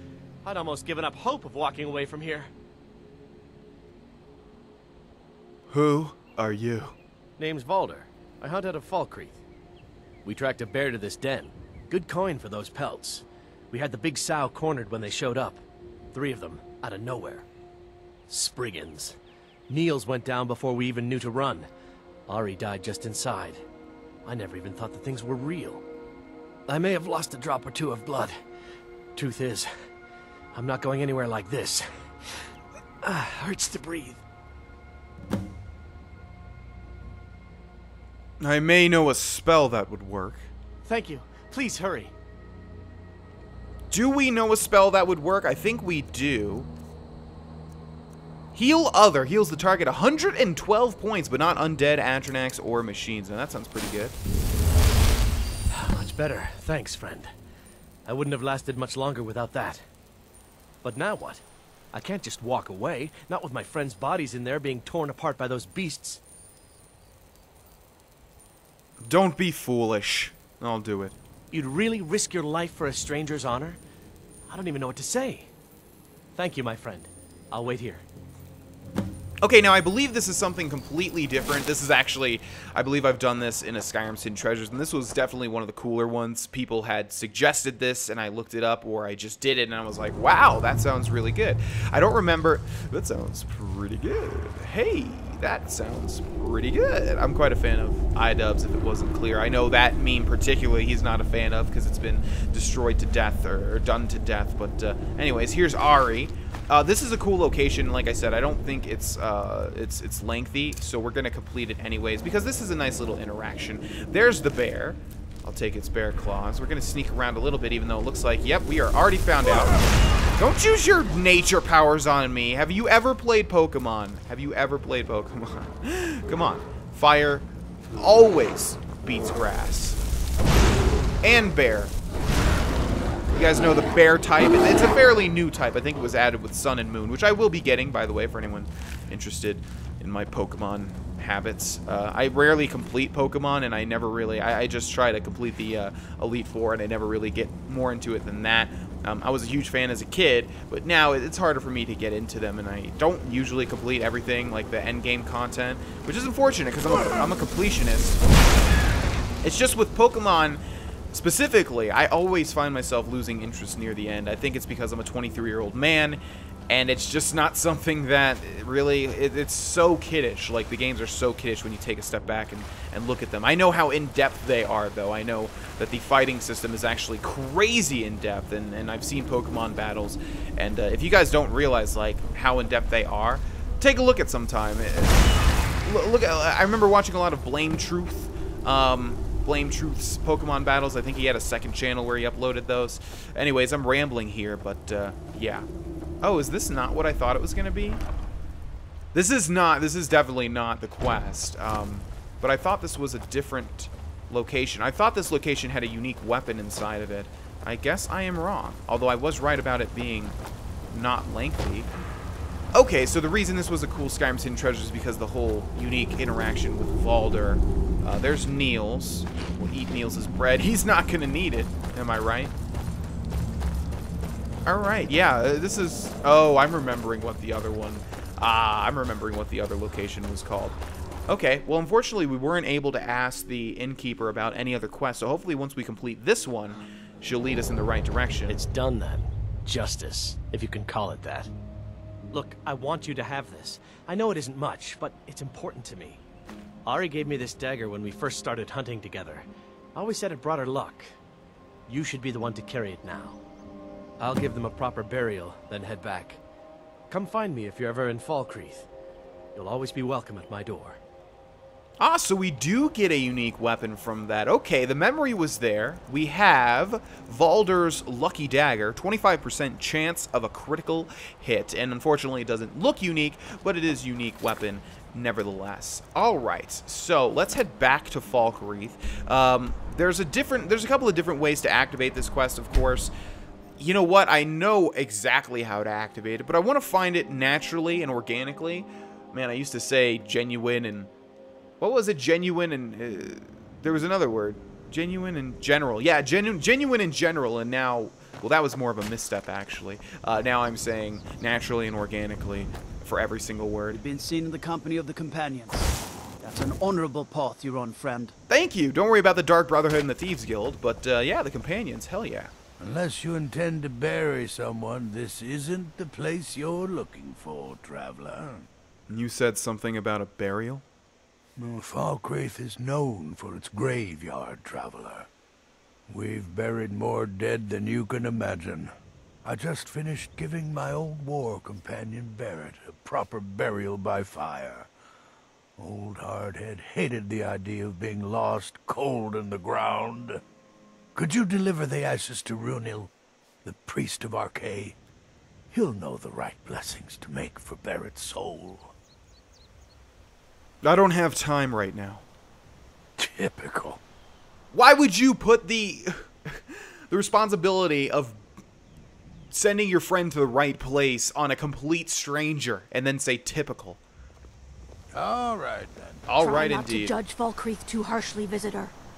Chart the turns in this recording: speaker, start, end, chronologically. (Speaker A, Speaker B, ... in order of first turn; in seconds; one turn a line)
Speaker A: 0.4-2.5
Speaker B: 5.7-7.0
Speaker A: 7.4-9.4
Speaker A: 10.2-15.6
Speaker A: 16.1-17.4
Speaker A: 18.3-19.2
Speaker A: 19.7-21.7
Speaker A: 22.3-23.6
Speaker A: 24.2-25.8
Speaker A: 26.7-28.4
Speaker A: 29.1-29.7
Speaker A: 30.5-31.9
Speaker A: 33.0-34.2
Speaker B: 38.4-40.5
Speaker A: 40.9-42.1
Speaker B: 43.9-46.7
Speaker B: 48.5-54.2
Speaker A: 55.7-57.3
Speaker A: 58.1-59.8
Speaker A: 60.8-66.2
Speaker B: 69.0-71.2
Speaker A: 71.5-73.8
Speaker A: 74.5-75.5
Speaker A: 76.4-78.0
Speaker B: 79.4-119.8
Speaker B: 120.4-130.0
Speaker B: 131.2-131.9
Speaker B: 133.3-158.2
Speaker B: 159.4-160.6
Speaker B: 161.1-195.7
Speaker B: 196.2-198.0
Speaker B: 199.1-210.4
Speaker B: 210.9-211.9
Speaker B: 212.7-222.5
Speaker B: 224.7-230.8
Speaker B: 231.3-238.6
Speaker A: 238.5-241.5
Speaker A: 242.3-246.2
Speaker A: 246.9-249.4
Speaker A: 249.9-251.1
Speaker A: 251.9-253.4
Speaker A: 254.2-256.4
Speaker A: 257.1-258.9
Speaker A: 259.6-261.0
Speaker B: 262.0-283.1
Speaker B: 283.8-291.1
Speaker B: 291.8-304.0
Speaker C: 303.9-305.9
Speaker C: 306.4-308.3
Speaker B: 308.5-312.5
Speaker D: 312.8-318.7
Speaker B: 319.1-320.8
Speaker D: 321.6-325.3
Speaker D: 326.1-328.9
Speaker D: 329.4-334.9
Speaker D: 335.8-340.4
Speaker D: 341.1-343.1
Speaker D: 343.6-345.0
Speaker D: 345.7-348.9
Speaker B: 350.8-352.2
Speaker D: 353.2-354.0
Speaker B: 354.7-358.4
Speaker B: 359.5-364.0
Speaker D: 365.1-366.3
Speaker B: 366.3-367.1
Speaker E: 366.4-368.9